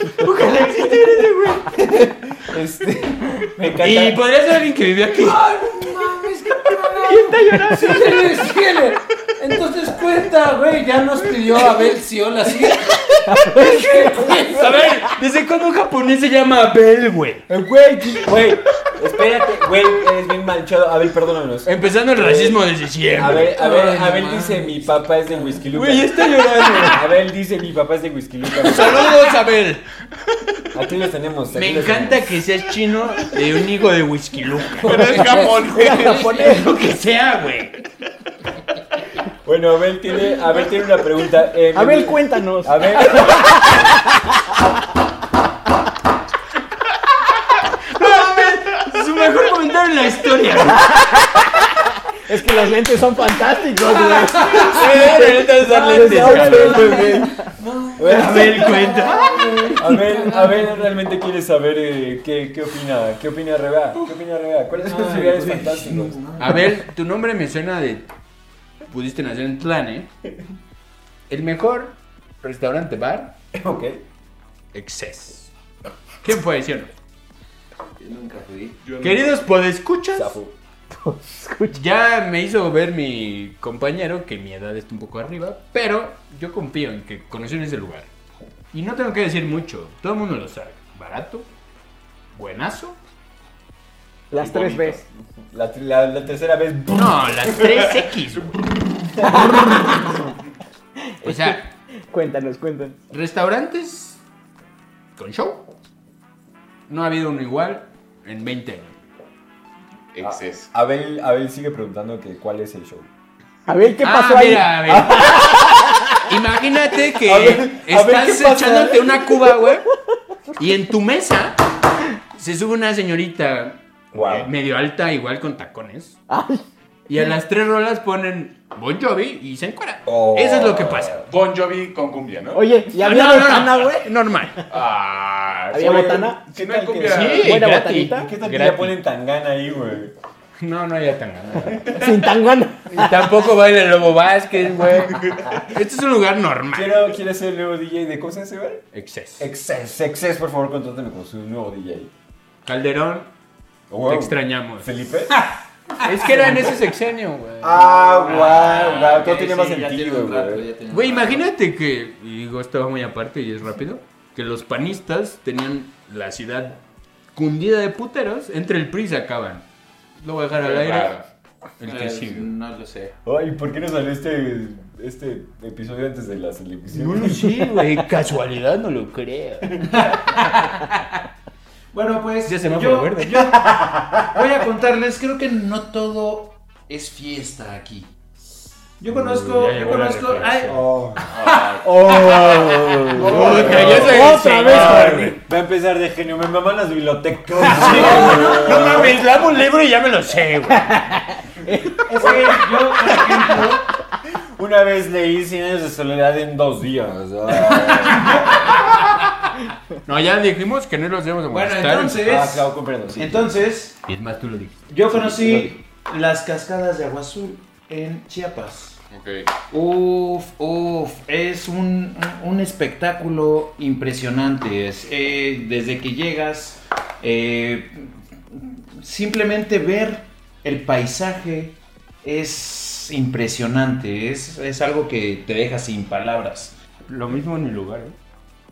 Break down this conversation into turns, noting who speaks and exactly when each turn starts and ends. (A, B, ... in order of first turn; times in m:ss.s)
0:00.2-0:01.8 A
0:00.5-0:04.2 B
0:03.8-0:08.8 C
0:04.0-0:18.3 A
0:09.4-0:13.1 C
0:13.3-0:13.6 D
0:14.0-0:15.0 B
0:17.7-0:29.3 B
0:21.6-0:27.1 A
0:28.5-0:29.8 A
0:30.7-0:32.4 B
0:31.5-0:37.8 A
0:34.8-0:36.5 E
0:35.2-0:36.8 D
0:39.4-0:43.7 B
0:41.7-0:44.6 D
0:48.0-0:49.0 E
0:48.2-0:51.2 A
0:50.7-0:57.5 D
0:54.0-1:00.7 A
0:55.8-0:57.4 B
0:58.0-0:59.1 B
0:58.0-1:00.1 C
0:59.7-1:06.3 B
1:04.8-1:06.8 C
1:06.4-1:08.1 A
1:08.8-1:10.1 A
1:11.3-1:13.4 A
1:13.5-1:14.0 B
1:14.7-1:15.5 A
1:16.2-1:16.9 A
1:18.0-1:18.8 C
1:18.8-1:19.4 E
1:19.0-1:20.4 A
1:20.1-1:20.5 B
1:20.9-1:21.8 D
1:21.7-1:28.1 A
1:28.7-1:31.5 A
1:32.3-1:33.0 A
1:34.3-1:35.0 D
1:34.4-1:34.8 B
1:34.4-1:35.0 E
1:35.5-1:37.7 B
1:36.9-1:40.2 A
1:39.0-1:40.1 B
1:39.2-1:40.3 D
1:41.2-1:41.6 D
1:41.2-1:41.7 A
1:42.1-1:43.0 D
1:43.1-1:44.2 A
1:45.2-1:45.7 A
1:46.9-1:49.0 A
1:50.2-1:50.7 E
1:50.2-1:53.1 B
1:53.7-1:56.2 D
1:54.0-1:59.9 A
1:54.9-1:55.6 B
1:57.1-1:59.6 B
2:00.6-2:01.6 A
2:02.2-2:06.2 A
2:04.1-2:04.5 B
2:04.1-2:04.4 E
2:06.3-2:06.6 D
2:07.1-2:11.2 A
2:10.1-2:11.2 B
2:11.3-2:12.6 E
2:12.5-2:14.1 D
2:13.0-2:14.7 A
2:14.7-2:17.6 E
2:15.7-2:18.3 D
2:15.8-2:17.4 B
2:17.0-2:19.0 A
2:18.1-2:20.2 B
2:20.6-2:22.3 A
2:21.9-2:23.5 D
2:22.9-2:27.1 A
2:25.2-2:25.6 E
2:26.7-2:28.9 B
2:28.9-2:29.5 A
2:29.4-2:32.1 B
2:32.6-2:33.3 A
2:33.9-2:35.4 B
2:34.1-2:39.1 A
2:36.0-2:36.8 B
2:37.6-2:40.7 B
2:38.2-2:41.5 C
2:40.9-2:46.8 A
2:47.3-2:49.6 A
2:50.2-2:51.2 A
2:50.6-2:51.2 E
2:51.8-2:52.5 A
2:51.9-2:53.2 C
2:53.2-2:57.9 B
2:56.9-2:59.8 A
2:59.8-3:00.4 C
3:00.3-3:01.2 A
3:01.9-3:08.1 C
3:02.4-3:03.6 A
3:03.7-3:04.4 B
3:09.0-3:10.8 C
3:09.2-3:15.4 A
3:10.7-3:19.2 B
3:11.3-3:15.1 E
3:13.5-3:13.8 C
3:13.8-3:15.4 D
3:17.6-3:21.1 A
3:17.7-3:19.2 C
3:20.7-3:22.6 D
3:22.0-3:23.8 C
3:22.2-3:22.5 B
3:23.1-3:23.4 B
3:24.2-3:28.9 B
3:28.1-3:28.5 C
3:28.9-3:29.3 A
3:30.0-3:32.3 A
3:31.5-3:34.0 C
3:32.2-3:33.6 B
3:34.1-3:34.8 A
3:34.9-3:39.0 C
3:35.1-3:35.8 B
3:39.1-3:39.5 E
3:39.7-3:56.8 C
3:57.1-3:58.2 A